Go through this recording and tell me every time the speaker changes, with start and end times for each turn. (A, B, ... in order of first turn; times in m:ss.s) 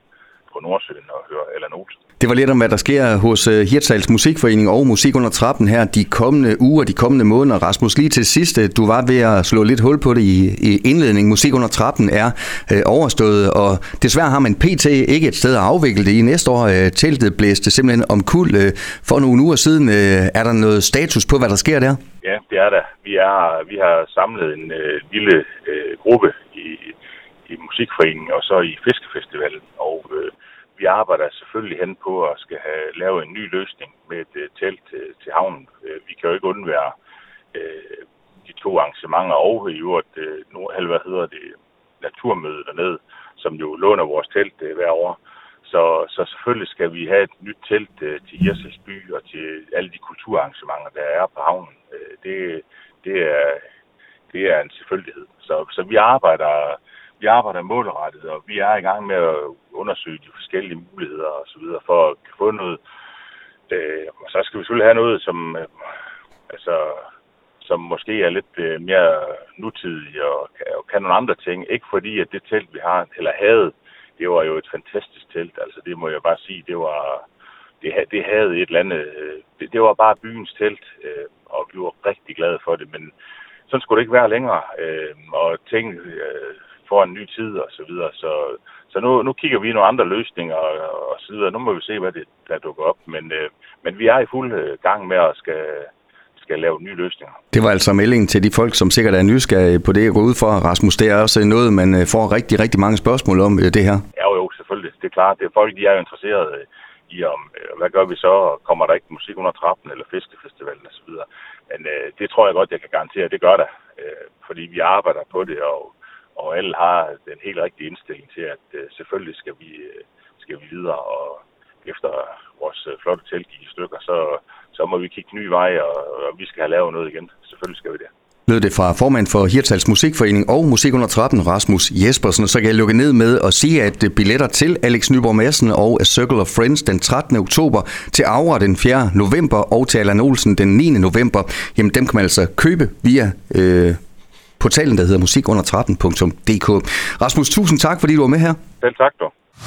0:00.5-0:02.0 A
0:02.2-0:22.0 B
0:22.2-0:27.0 A
0:27.5-0:36.9 A
0:37.5-0:53.6 A
0:54.3-1:02.8 A
1:03.7-1:05.8 A
1:06.5-1:07.0 A
1:07.6-1:17.2 A
1:17.8-1:23.1 A
1:23.7-1:37.4 A
1:37.5-1:44.0 B
1:44.2-2:08.1 A
2:08.5-2:24.0 B
2:24.6-2:28.6 B
2:28.8-2:29.3 A